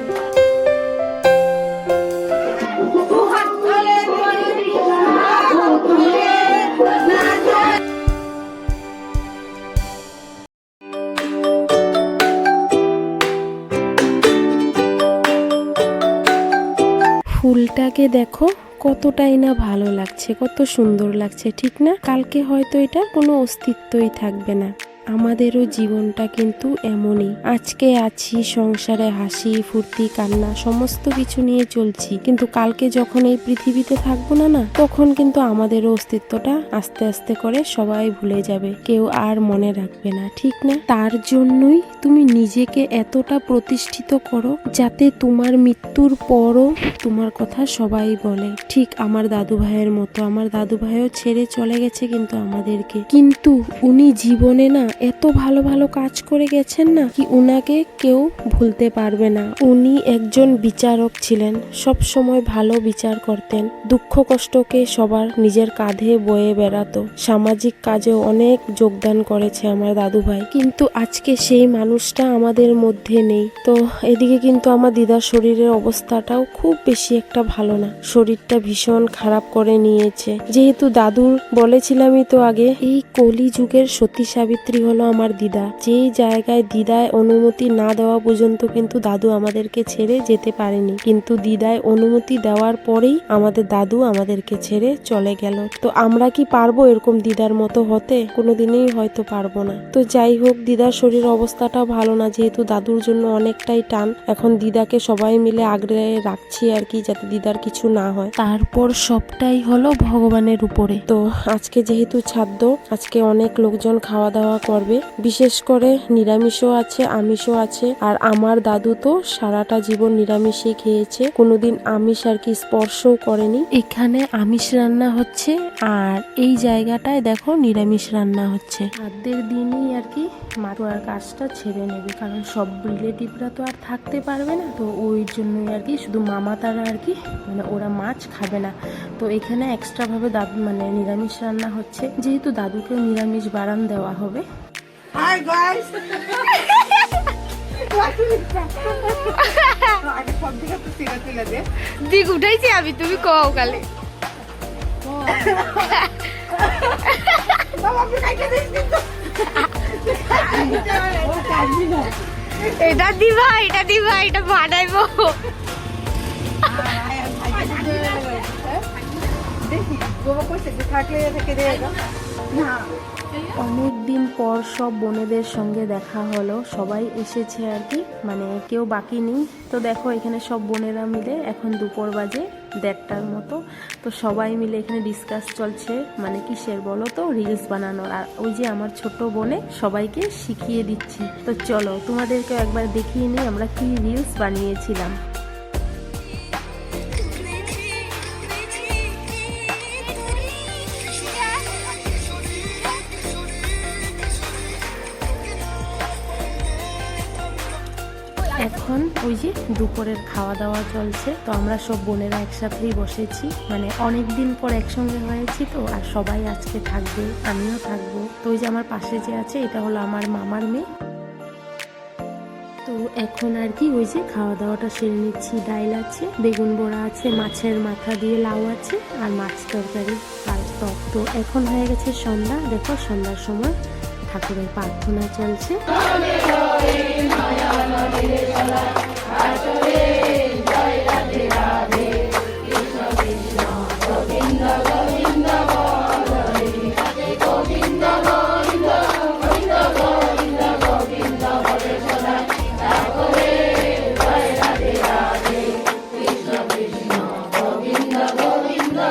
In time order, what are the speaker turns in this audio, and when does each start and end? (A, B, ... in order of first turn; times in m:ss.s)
0:03.4-0:04.5 A
0:05.3-0:06.4 A
0:17.4-2:24.4 B
2:25.1-2:27.0 A
2:27.6-2:31.9 A
2:29.3-2:30.0 C
2:32.0-2:33.8 C
2:35.0-2:36.0 A
2:35.9-2:36.4 C
2:36.6-2:36.9 A
2:37.0-2:37.7 C
2:37.7-2:42.9 A
2:42.7-2:45.4 C
2:46.7-2:48.8 A
2:49.4-2:52.0 A
2:52.5-2:52.9 A
2:53.5-3:15.2 B
3:28.4-3:40.8 B
3:42.8-3:53.8 B
3:54.3-3:55.8 B